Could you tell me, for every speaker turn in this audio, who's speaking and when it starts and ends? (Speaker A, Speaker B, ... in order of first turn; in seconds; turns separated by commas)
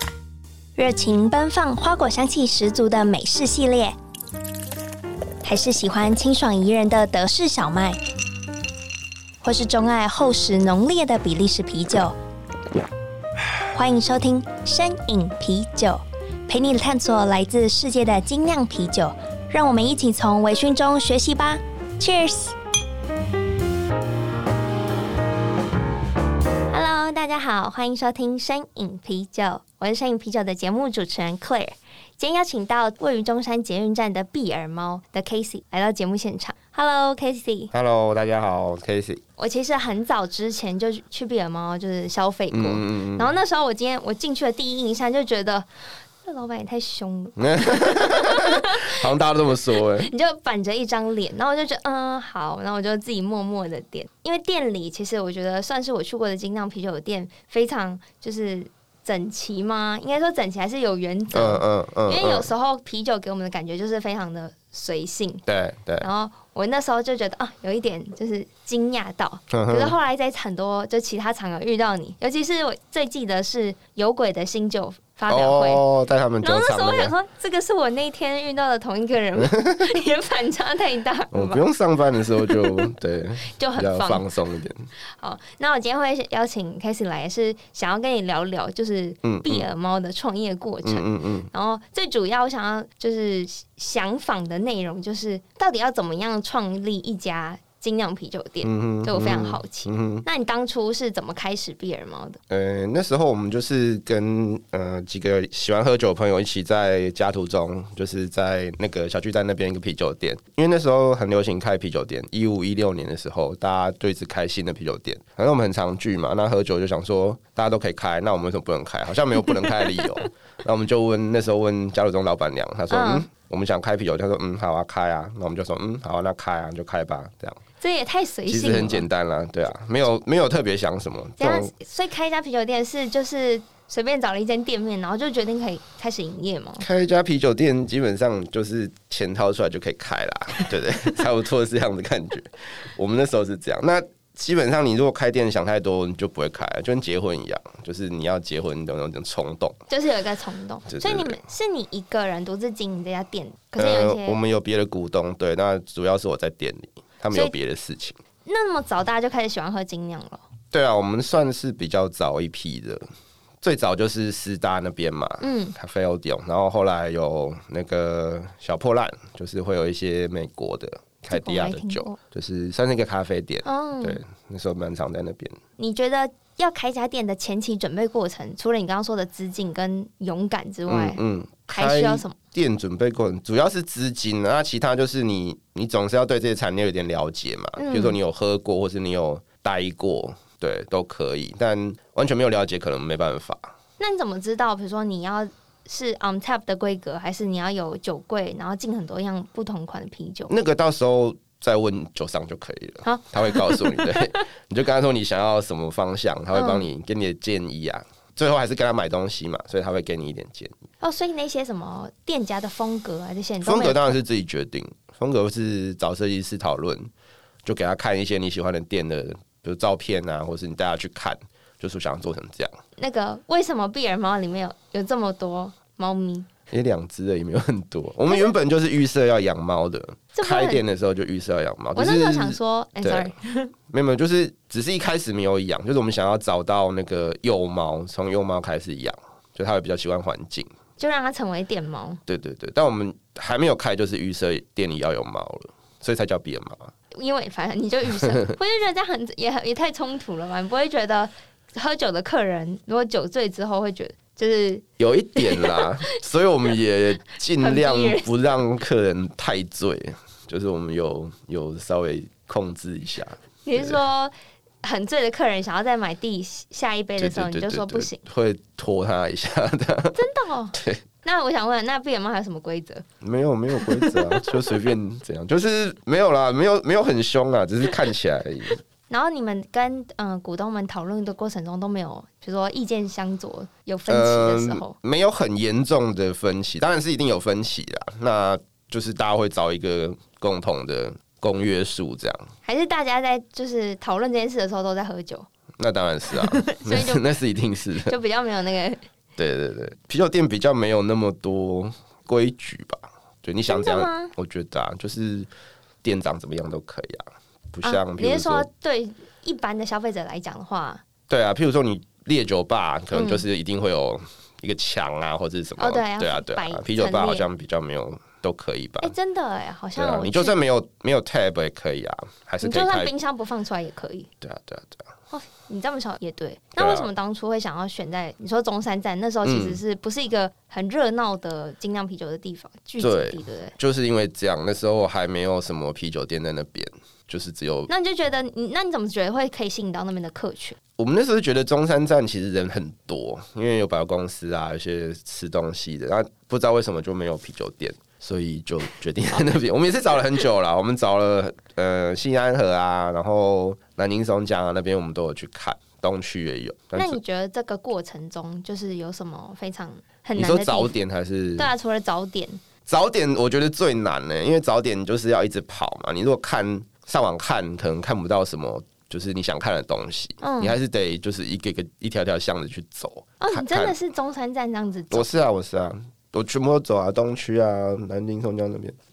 Speaker A: 0.8-4.0, Speaker A: 5.4-8.0, Speaker A: 9.4-12.2, Speaker A: 13.7-22.6, Speaker A: 26.7-37.7, Speaker B: 37.7-39.2, Speaker A: 39.4-49.1, Speaker B: 42.5-43.3, Speaker B: 47.4-50.1, Speaker A: 49.8-65.4, Speaker B: 61.3-62.5, Speaker B: 65.5-66.1, Speaker A: 66.0-75.8, Speaker B: 69.5-70.0, Speaker B: 75.3-77.1, Speaker A: 76.4-81.6, Speaker B: 81.3-84.8, Speaker A: 82.4-82.9, Speaker A: 83.5-84.3, Speaker A: 85.2-102.4, Speaker B: 89.2-89.7, Speaker B: 90.8-91.5, Speaker B: 98.6-100.2, Speaker B: 102.5-127.6, Speaker A: 119.4-120.0, Speaker A: 122.9-123.3, Speaker A: 127.8-129.1, Speaker B: 128.5-131.7, Speaker A: 131.4-136.8, Speaker B: 136.8-149.8, Speaker A: 149.9-154.4, Speaker B: 150.9-151.4, Speaker B: 153.8-158.2, Speaker A: 158.4-160.4, Speaker B: 160.7-163.1, Speaker B: 163.6-175.6, Speaker A: 165.4-165.8, Speaker A: 171.3-172.2, Speaker A: 173.7-174.2, Speaker A: 175.8-182.4, Speaker B: 180.9-193.7, Speaker A: 187.8-188.2, Speaker A: 194.0-200.5, Speaker B: 200.5-210.7, Speaker A: 203.1-204.2, Speaker A: 206.5-206.9, Speaker A: 211.0-214.1, Speaker B: 213.6-217.1, Speaker B: 217.6-222.8, Speaker A: 223.0-226.5, Speaker B: 226.7-233.3, Speaker A: 228.3-228.5, Speaker A: 230.3-230.8, Speaker A: 231.9-233.7, Speaker B: 233.9-240.7, Speaker A: 241.0-242.2, Speaker B: 242.3-246.9, Speaker A: 247.1-254.8, Speaker B: 255.0-264.0, Speaker A: 255.4-256.1, Speaker A: 257.6-258.3, Speaker A: 263.6-268.2, Speaker B: 267.2-270.2, Speaker A: 270.1-273.0, Speaker B: 270.8-271.0, Speaker B: 273.2-278.8, Speaker A: 273.7-274.5, Speaker A: 279.1-284.9, Speaker B: 284.1-292.5, Speaker A: 292.6-295.5, Speaker B: 295.8-298.2, Speaker A: 296.3-297.2, Speaker A: 298.0-299.0, Speaker B: 299.4-305.5, Speaker A: 303.7-304.3, Speaker B: 306.0-308.7, Speaker A: 307.8-311.0, Speaker B: 311.3-319.1, Speaker A: 313.1-313.5, Speaker A: 315.8-317.5, Speaker A: 319.0-320.5, Speaker B: 320.0-323.1, Speaker A: 322.6-324.3, Speaker B: 324.4-325.1, Speaker A: 325.3-333.8, Speaker B: 326.8-327.1, Speaker B: 329.4-329.8, Speaker B: 333.0-337.9, Speaker A: 337.9-340.8, Speaker B: 341.0-357.2, Speaker A: 356.9-360.9, Speaker B: 360.4-361.7, Speaker A: 361.6-362.6, Speaker B: 362.9-374.0, Speaker A: 370.4-370.8, Speaker A: 373.4-375.5, Speaker B: 375.1-379.0